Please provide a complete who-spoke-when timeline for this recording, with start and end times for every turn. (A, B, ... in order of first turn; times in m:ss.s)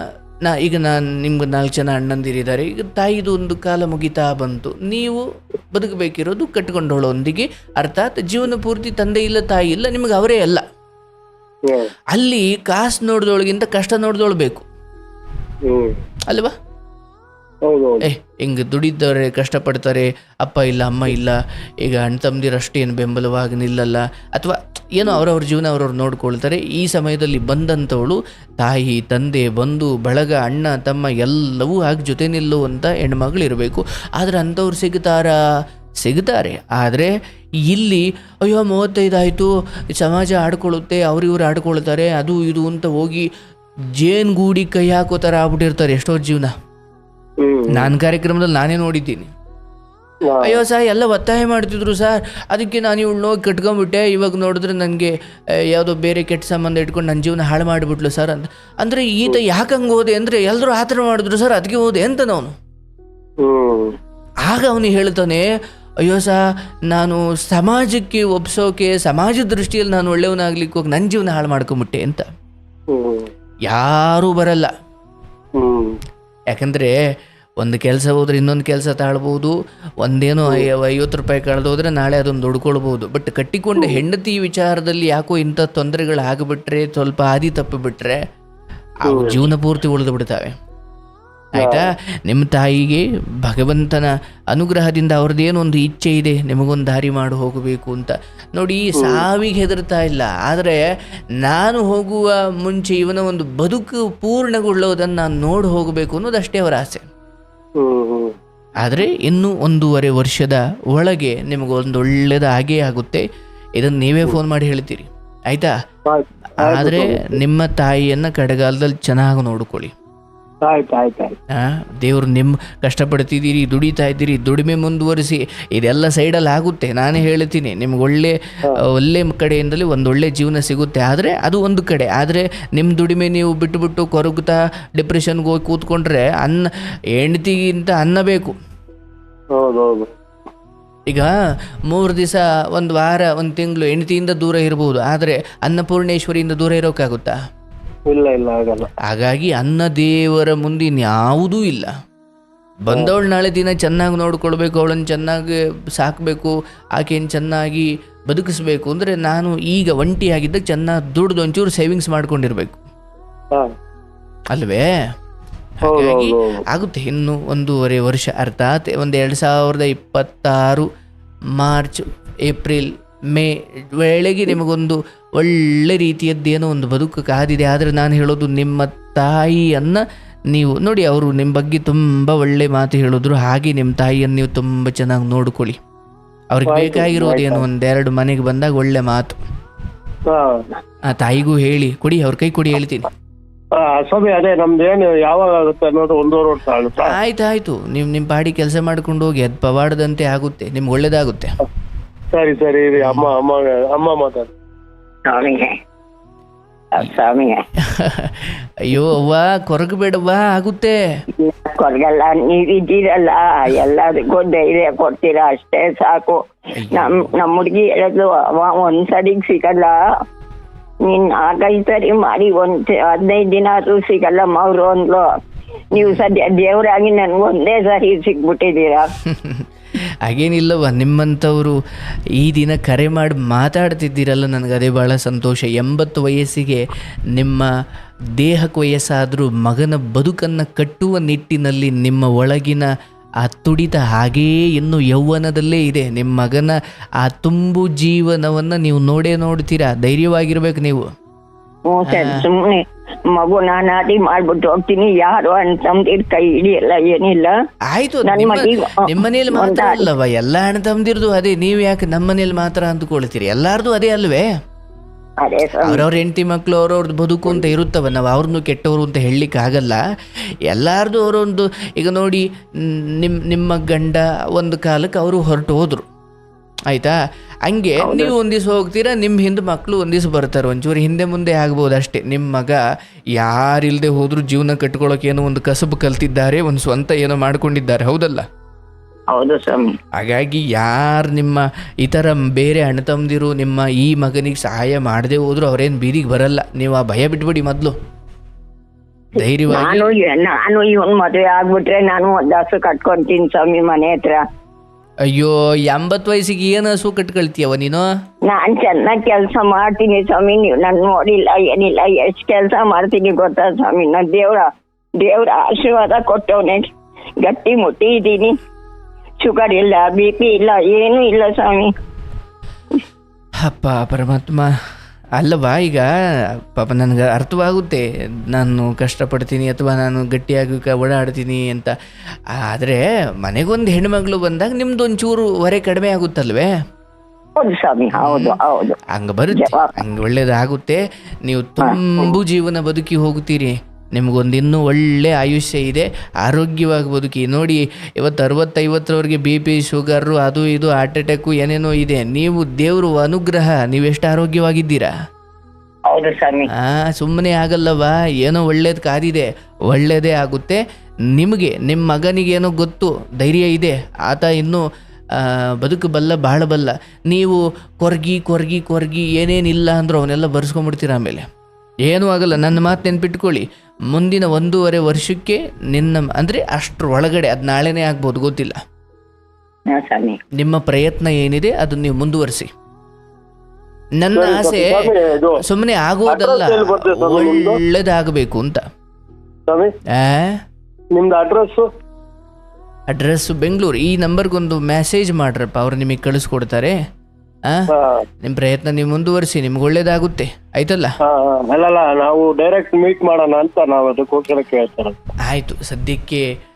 0:00.4-0:10.6 A
0:11.6-0:11.9 B
0:12.1-0:14.7 A
0:15.6-0:16.0 B
0:17.6-0:18.0 B
0:18.0-0:35.4 A
0:36.0-0:37.1 A
0:37.7-0:43.3 A
0:44.0-0:46.5 A
0:47.4-0:47.9 B
0:47.7-0:49.3 A
0:50.2-0:50.6 B
0:50.4-0:55.1 A
0:55.6-1:02.5 A
1:03.4-1:04.0 B
1:04.4-1:05.4 A
1:06.0-1:06.4 A
1:06.9-1:12.3 A
1:12.9-1:13.3 B
1:13.7-1:14.7 A
1:15.6-1:16.0 B
1:16.5-1:16.9 A
1:17.6-1:28.2 A
1:29.0-1:30.5 A
1:29.0-1:29.4 B
1:31.5-1:40.8 A
1:31.6-1:31.9 B
1:39.0-1:39.2 B
1:41.4-1:47.0 A
1:47.8-1:48.3 B
1:48.8-1:53.2 A
1:53.8-1:55.7 A
1:56.0-1:57.4 B
1:56.6-1:59.9 A
2:00.6-2:01.4 B
2:01.5-2:18.6 A
2:19.5-2:20.1 B
2:21.1-2:21.3 A
2:21.9-2:27.4 A
2:28.1-2:28.9 B
2:29.0-2:31.9 A
2:32.8-2:42.8 A
2:44.5-2:44.9 A
2:45.8-2:50.9 A
2:45.9-2:46.6 B
2:51.6-3:05.8 A
3:06.5-3:09.4 A
3:06.7-3:07.6 B
3:10.3-3:10.6 B
3:11.1-3:13.1 A
3:13.7-3:17.2 B
3:17.0-3:21.6 A
3:22.3-3:24.5 B
3:23.0-3:23.3 A
3:25.2-3:25.8 C
3:26.9-3:27.6 C
3:27.8-3:31.0 A
3:31.4-3:40.0 C
3:36.8-3:37.3 A
3:41.0-3:45.3 C
3:45.9-3:49.1 C
3:46.0-3:46.2 A
3:49.2-3:49.7 A
3:50.2-3:51.8 A
3:52.4-3:56.8 A
3:57.3-3:57.7 A
3:58.4-4:11.1 A
4:11.8-4:17.5 C
4:12.1-4:12.4 A
4:17.9-4:24.5 A
4:18.2-4:20.1 C
4:25.4-4:26.0 C
4:25.8-4:30.0 A
4:30.7-4:36.0 A
4:36.9-4:42.8 A
4:38.0-4:38.3 C
4:43.4-4:48.4 A
4:49.3-4:50.0 C
4:50.2-4:57.9 A
4:59.3-5:00.1 A
4:59.7-5:04.4 C
5:05.3-5:08.0 A
5:08.4-5:18.6 C
5:19.4-5:21.9 C
5:23.6-5:24.7 A
5:25.4-5:26.1 A
5:26.7-5:31.9 A
5:32.5-5:36.7 A
5:37.6-5:39.0 C
5:38.1-5:38.6 A
5:39.1-5:55.1 A
5:39.5-5:40.0 C
5:41.8-5:42.3 C
5:56.1-5:56.7 C
5:56.7-6:00.8 A
6:01.3-6:11.4 A
6:12.1-6:18.8 A
6:19.9-6:20.4 C
6:20.6-6:22.7 A
6:24.2-6:28.8 A
6:24.3-6:25.6 B
6:26.3-6:27.8 B
6:29.7-6:29.9 B
6:30.1-6:30.6 A
6:31.1-6:31.9 B
6:33.1-6:36.9 A
6:37.9-6:38.2 B
6:38.4-6:41.1 A
6:41.2-6:45.2 B
6:45.5-6:46.4 A